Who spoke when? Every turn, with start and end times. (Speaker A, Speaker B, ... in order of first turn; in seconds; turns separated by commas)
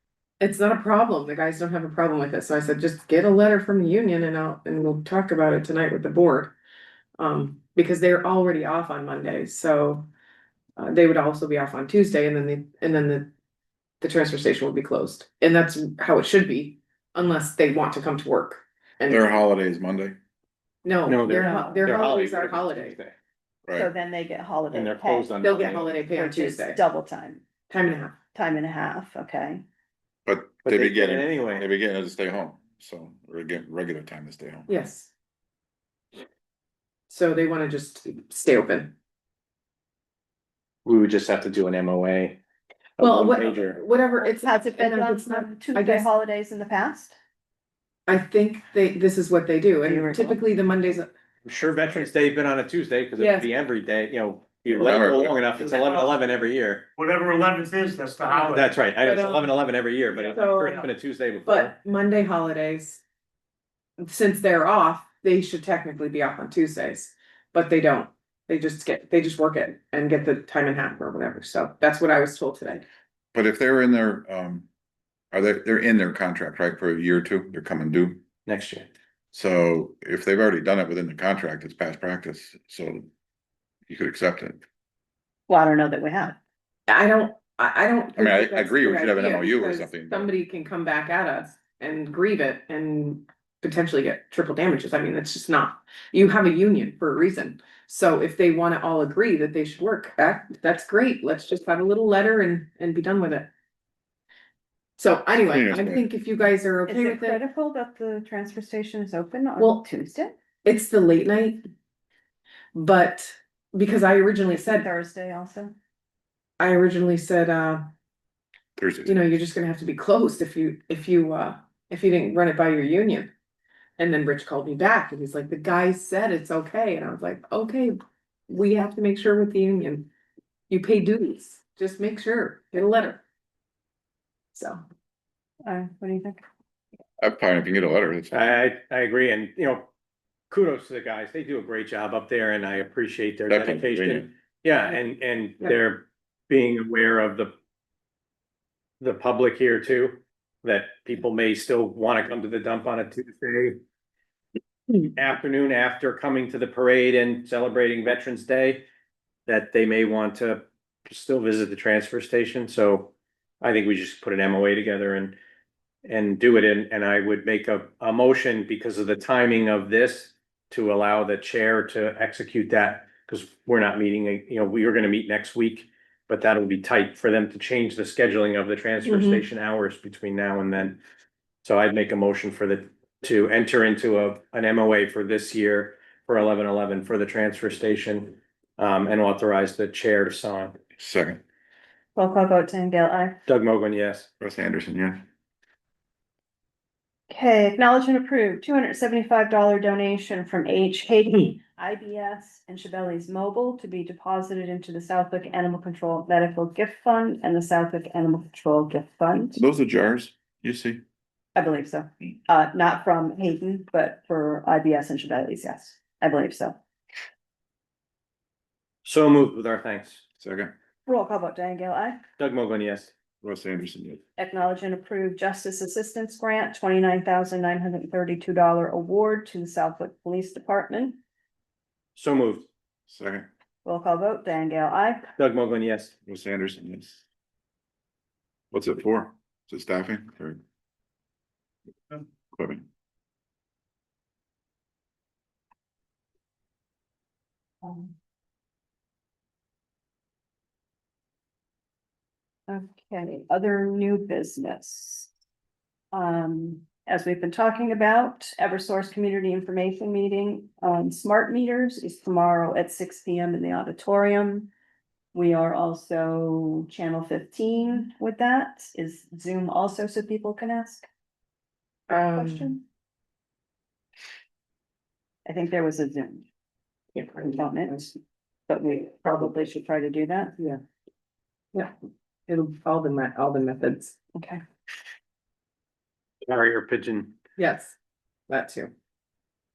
Speaker A: 0.4-6.5, Speaker A: 7.2-10.1, Speaker A: 10.8-13.3, Speaker A: 14.0-19.3, Speaker B: 19.1-20.2, Speaker A: 20.8-23.0, Speaker C: 21.1-23.1, Speaker D: 21.3-21.9, Speaker D: 23.7-25.3, Speaker C: 24.7-25.9, Speaker A: 25.4-26.8, Speaker D: 26.0-27.4, Speaker A: 27.7-28.1, Speaker D: 28.3-29.6, Speaker B: 30.2-34.7, Speaker C: 30.6-31.7, Speaker A: 34.7-35.1, Speaker A: 37.1-38.9, Speaker C: 40.8-42.4, Speaker C: 43.0-43.8, Speaker A: 43.0-46.1, Speaker D: 44.2-47.1, Speaker A: 48.1-51.1, Speaker D: 49.8-50.4, Speaker C: 51.4-56.9, Speaker A: 53.2-53.5, Speaker B: 54.7-55.4, Speaker E: 55.6-56.1, Speaker E: 57.0-58.7, Speaker C: 58.3-61.7, Speaker A: 59.0-59.5, Speaker A: 60.3-60.9, Speaker A: 61.5-63.0, Speaker A: 64.0-72.8, Speaker B: 73.3-74.7, Speaker B: 75.3-78.2, Speaker C: 78.5-78.9, Speaker B: 79.3-83.1, Speaker B: 83.9-84.6, Speaker D: 85.5-86.4, Speaker A: 86.9-103.5, Speaker B: 88.2-90.3, Speaker A: 105.0-107.4, Speaker B: 105.5-106.0, Speaker D: 106.9-110.3, Speaker A: 109.6-109.8, Speaker A: 110.6-111.6, Speaker A: 112.7-114.9, Speaker D: 114.5-115.7, Speaker A: 116.6-117.9, Speaker B: 118.8-119.2, Speaker A: 119.0-123.3, Speaker A: 124.0-128.0, Speaker A: 128.5-130.1, Speaker A: 130.7-133.2, Speaker A: 134.5-134.8, Speaker D: 135.6-136.4, Speaker B: 137.2-138.4, Speaker C: 138.3-139.9, Speaker C: 140.5-147.5, Speaker B: 143.5-144.3, Speaker C: 149.0-153.8, Speaker C: 155.0-158.8, Speaker C: 159.5-165.4, Speaker C: 166.0-181.0, Speaker A: 179.1-179.4, Speaker C: 181.6-190.8, Speaker B: 191.0-191.4, Speaker D: 192.2-193.4, Speaker C: 193.4-194.3, Speaker B: 194.4-195.2, Speaker D: 197.3-209.6, Speaker B: 209.6-211.0, Speaker D: 211.5-216.8, Speaker C: 219.0-220.2, Speaker B: 220.4-220.7, Speaker D: 221.1-222.2, Speaker C: 222.4-223.1, Speaker B: 223.4-224.2, Speaker D: 224.4-231.2, Speaker C: 232.1-232.7, Speaker B: 233.1-233.5, Speaker D: 233.8-235.3, Speaker C: 235.4-236.1, Speaker B: 236.3-237.2, Speaker B: 238.7-240.6, Speaker B: 242.5-242.8, Speaker D: 247.8-248.1, Speaker D: 252.7-255.3, Speaker D: 256.1-264.7, Speaker D: 265.3-271.1, Speaker A: 272.1-272.7, Speaker D: 272.1-272.8, Speaker D: 275.4-276.4, Speaker A: 277.1-277.5, Speaker D: 277.4-278.1, Speaker D: 278.7-280.6, Speaker A: 282.5-284.1, Speaker D: 284.4-284.6, Speaker C: 286.4-287.3, Speaker A: 287.6-287.9, Speaker A: 288.5-288.9